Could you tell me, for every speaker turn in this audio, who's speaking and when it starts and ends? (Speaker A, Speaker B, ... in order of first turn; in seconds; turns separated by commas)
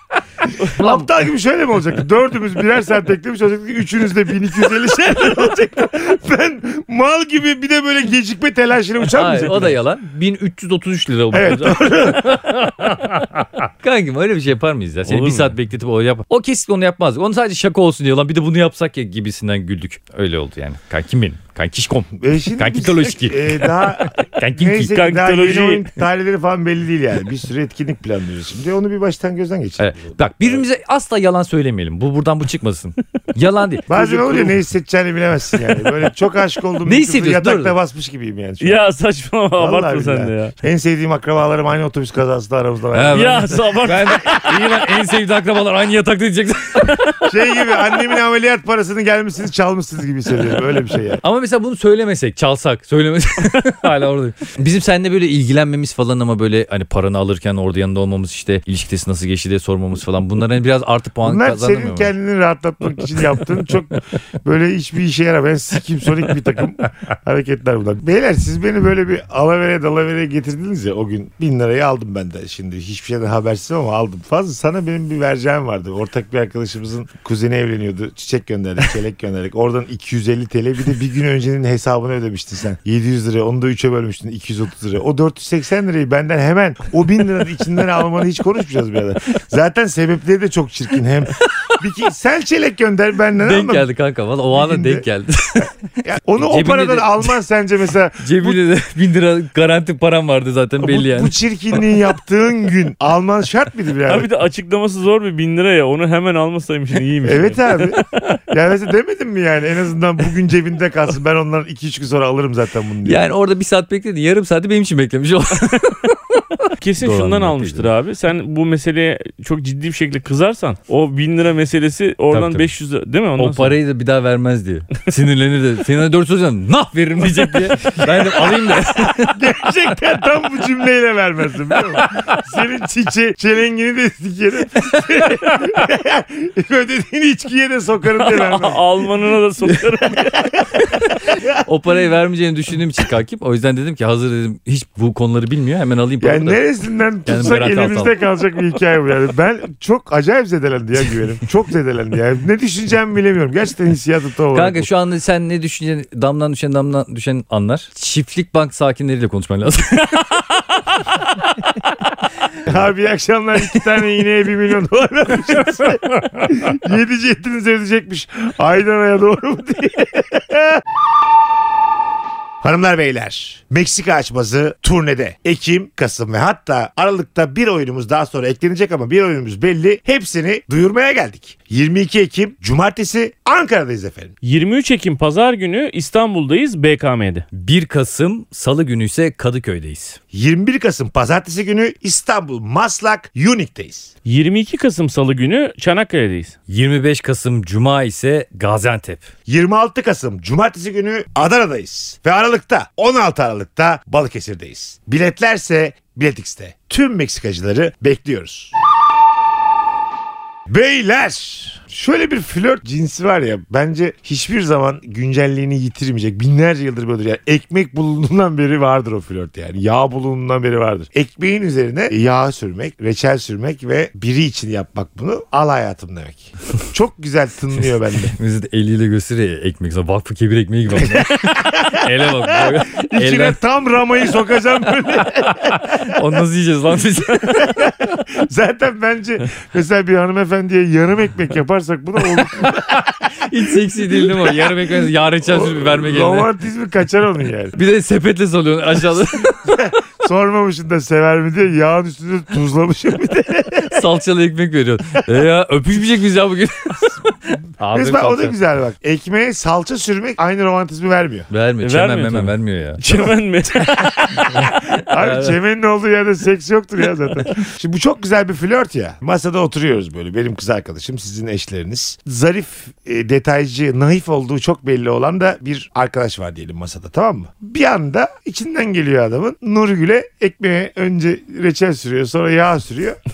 Speaker A: 0.8-9.8, Speaker B: 0.8-1.1, Speaker B: 9.1-24.9, Speaker A: 11.3-13.3, Speaker C: 15.1-15.5, Speaker A: 22.2-30.6, Speaker C: 24.9-25.9, Speaker B: 29.8-34.5, Speaker A: 33.9-38.8, Speaker C: 34.0-34.4, Speaker B: 36.9-37.8, Speaker C: 38.6-40.5, Speaker A: 39.6-43.6, Speaker B: 42.9-47.1, Speaker C: 43.1-44.4, Speaker A: 47.2-51.2, Speaker B: 51.2-62.1, Speaker A: 61.2-93.9, Speaker B: 91.4-91.8, Speaker B: 93.4-95.7, Speaker A: 94.5-95.1, Speaker A: 96.0-98.6, Speaker B: 96.4-97.4, Speaker B: 98.2-101.3, Speaker A: 100.8-104.3, Speaker C: 104.1-108.1, Speaker A: 107.2-113.2, Speaker B: 113.1-117.9, Speaker C: 116.8-123.8, Speaker B: 122.3-122.7, Speaker B: 123.4-129.4, Speaker A: 128.5-138.8, Speaker B: 131.9-132.4, Speaker C: 138.2-140.5, Speaker A: 140.4-141.6, Speaker B: 140.8-146.6, Speaker A: 146.2-154.9, Speaker B: 147.3-148.2, Speaker B: 154.5-160.3, Speaker A: 162.6-170.8, Speaker A: 172.6-184.3, Speaker C: 184.4-187.5, Speaker B: 187.5-190.2, Speaker A: 190.3-194.1, Speaker C: 194.3-196.6, Speaker B: 196.7-199.3, Speaker A: 199.5-208.7, Speaker A: 210.7-228.3, Speaker B: 228.3-233.6, Speaker A: 231.0-236.2, Speaker B: 235.9-237.8, Speaker A: 237.6-243.5, Speaker B: 243.4-246.5, Speaker A: 244.1-247.8, Speaker B: 247.8-249.8, Speaker A: 249.4-254.1, Speaker B: 253.9-257.1, Speaker B: 257.8-258.6, Speaker A: 257.9-261.5, Speaker B: 261.5-263.0, Speaker C: 261.8-264.5, Speaker A: 264.0-283.2, Speaker B: 264.4-265.6